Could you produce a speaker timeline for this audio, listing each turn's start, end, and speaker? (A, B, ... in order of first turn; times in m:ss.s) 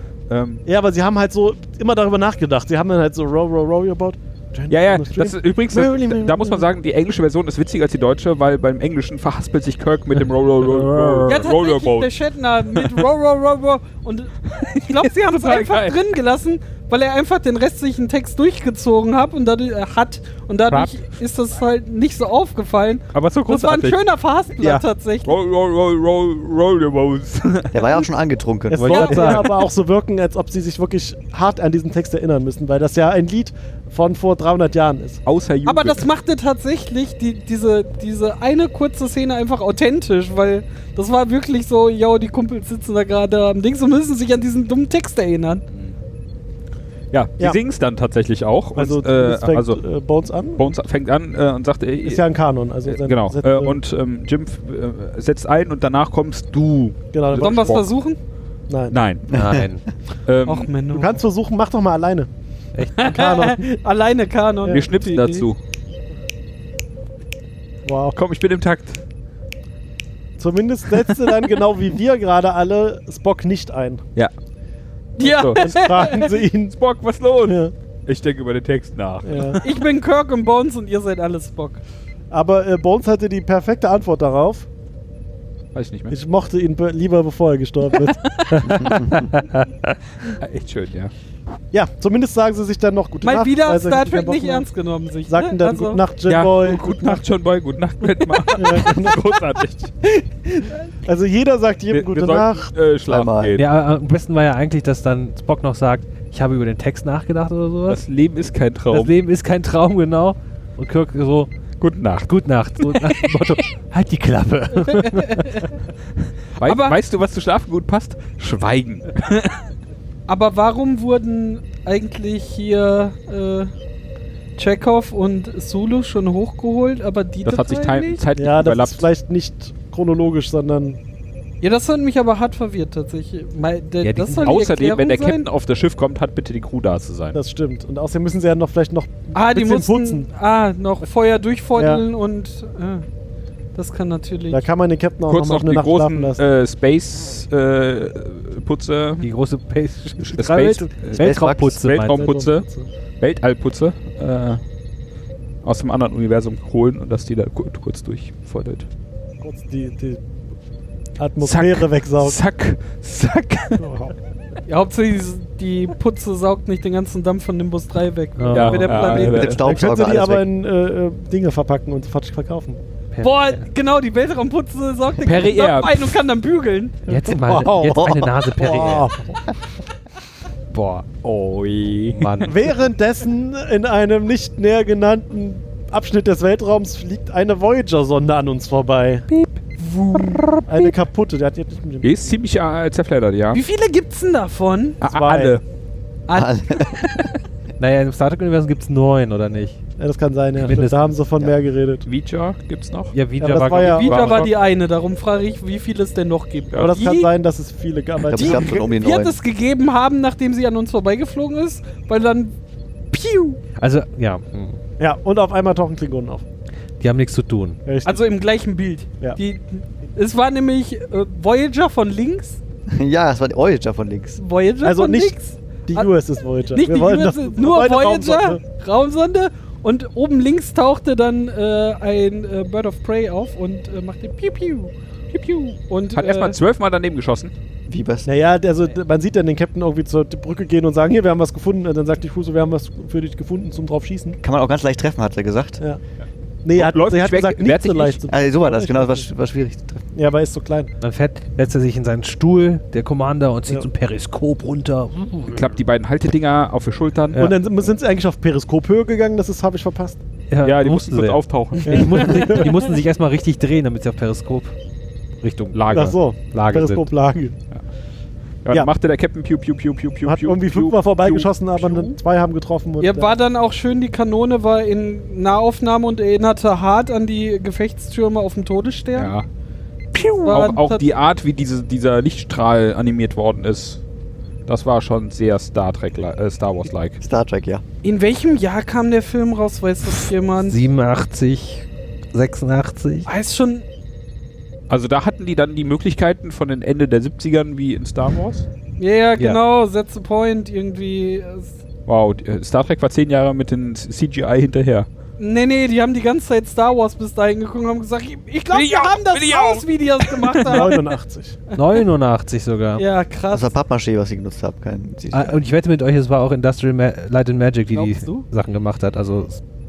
0:00.3-0:00.6 A
0:00.6-0:06.7 B
0:04.7-0:12.1 A
0:10.8-0:11.4 C
0:11.2-0:25.3 D
0:12.7-0:13.0 A
0:14.5-0:16.0 A
0:20.7-0:21.0 A
0:23.1-0:24.0 A
0:25.2-0:28.0 A
0:27.7-0:29.4 E
0:28.7-0:35.2 B
0:28.9-0:29.5 D
0:28.9-0:29.4 C
0:35.2-0:36.1 A
0:35.6-0:45.6 D
0:47.1-0:49.8 A
0:48.7-0:50.7 B
0:50.6-0:52.2 A
0:52.0-0:53.8 B
0:52.8-0:57.9 A
0:57.1-0:57.8 B
0:57.4-0:58.2 D
0:58.7-0:59.0 B
0:58.9-0:59.3 A
0:59.3-0:59.8 C
0:59.3-0:59.7 E
1:00.2-1:00.7 A
1:00.4-1:01.2 D
1:00.9-1:02.3 B
1:02.7-1:03.1 C
1:03.0-1:05.5 D
1:03.0-1:03.6 B
1:04.7-1:05.6 A
1:07.8-1:08.2 B
1:08.1-1:09.0 A
1:10.4-1:14.0 B
1:15.2-1:16.7 B
1:15.2-1:16.3 D
1:15.2-1:15.8 A
1:16.7-1:19.8 A
1:17.4-1:17.7 B
1:19.2-1:19.6 B
1:19.6-1:21.8 D
1:22.3-1:24.7 B
1:25.7-1:26.1 A
1:26.1-1:28.2 B
1:28.5-1:28.8 D
1:28.5-1:29.6 C
1:30.2-1:31.1 A
1:31.7-1:34.7 B
1:33.2-1:36.0 D
1:35.3-1:37.2 B
1:36.3-1:39.9 A
1:38.3-1:38.8 D
1:38.5-1:39.2 B
1:40.6-1:42.7 B
1:41.9-1:43.6 A
1:43.1-1:43.6 E
1:43.6-1:48.0 C
1:47.9-1:49.1 A
1:48.9-1:51.5 C
1:51.8-1:53.3 A
1:52.2-1:55.7 C
1:54.8-1:55.7 D
1:56.6-1:59.6 A
1:56.6-1:57.0 D
2:00.3-2:03.7 D
2:04.6-2:08.2 D
2:07.4-2:09.0 A
2:08.4-2:11.0 B
2:11.6-2:15.4 D
2:14.0-2:14.5 C
2:14.4-2:17.4 A
2:17.3-2:20.3 B
2:19.3-2:23.0 D
2:21.8-2:22.0 B
2:23.7-2:24.6 D
2:24.5-2:26.4 B
2:25.3-2:29.3 A
2:29.2-2:32.3 C
2:30.2-2:32.6 A
2:31.2-2:31.8 E
2:32.0-2:32.9 B
2:33.2-2:34.6 A
2:35.6-2:38.9 A
2:39.4-2:40.2 B
2:41.2-2:42.4 B
2:41.4-2:43.8 A
2:43.8-2:44.1 B
2:44.7-2:49.5 D
2:48.4-2:49.2 C
2:48.5-2:49.6 A
2:49.1-2:50.4 E
2:49.3-2:52.8 B
2:53.1-2:53.6 C
2:53.2-2:57.0 D
2:55.2-2:56.2 A
2:57.1-2:59.1 C
2:57.1-2:59.4 B
2:57.9-2:58.4 E
3:00.7-3:01.0 C
3:01.1-3:02.5 A
3:02.1-3:02.5 C
3:02.4-3:09.3 B
3:09.8-3:10.4 D
3:10.7-3:12.3 B
3:12.0-3:13.6 A
3:13.5-3:15.0 D
3:15.0-3:15.6 A
3:15.0-3:15.6 B
3:16.3-3:17.1 D
3:16.3-3:17.3 E
3:17.8-3:19.8 C
3:20.0-3:22.0 B
3:20.6-3:21.2 C
3:22.0-3:23.1 A
3:23.1-3:24.4 C
3:23.4-3:24.3 B
3:23.9-3:24.5 A
3:23.9-3:27.3 D
3:26.7-3:27.0 A
3:26.8-3:28.9 B
3:28.2-3:29.4 E
3:28.3-3:32.5 D
3:33.1-3:33.6 D
3:33.8-3:34.8 C
3:35.0-3:36.4 B
3:37.0-3:37.8 C
3:37.8-3:38.2 B
3:38.0-3:42.6 D
3:42.9-3:44.4 E
3:44.4-3:46.1 D
3:44.8-3:45.3 B
3:45.8-3:48.6 B
3:46.7-3:56.6 D
3:56.1-3:57.5 A
3:57.9-3:58.3 E
3:58.2-4:04.4 B
4:04.4-4:05.8 E
4:06.6-4:09.3 B
4:06.7-4:08.2 A
4:08.3-4:10.0 E
4:10.1-4:10.9 B
4:11.0-4:15.6 C
4:15.5-4:17.4 A
4:17.4-4:20.2 B
4:20.5-4:24.8 C
4:20.6-4:22.5 A
4:21.8-4:22.7 B
4:25.4-4:26.0 C
4:25.7-4:26.1 A
4:25.9-4:27.5 B
4:26.5-4:27.0 C
4:28.6-4:32.1 A
4:30.2-4:33.3 B
4:33.0-4:39.3 D
4:39.2-4:39.4 A
4:40.1-4:44.0 A
4:40.4-4:41.1 D
4:44.7-4:47.2 A
4:47.2-4:47.8 E
4:48.0-4:50.8 D
4:50.6-4:53.3 C
4:53.2-4:53.8 D
4:54.9-4:58.6 A
4:59.0-5:01.7 D
5:02.1-5:05.1 A
5:05.4-5:11.0 D
5:08.7-5:10.9 A
5:10.6-5:11.6 B
5:11.7-5:12.0 D
5:11.7-5:13.0 C
5:13.0-5:13.7 D
5:13.5-5:15.6 E
5:15.3-5:19.6 C
5:17.9-5:18.4 D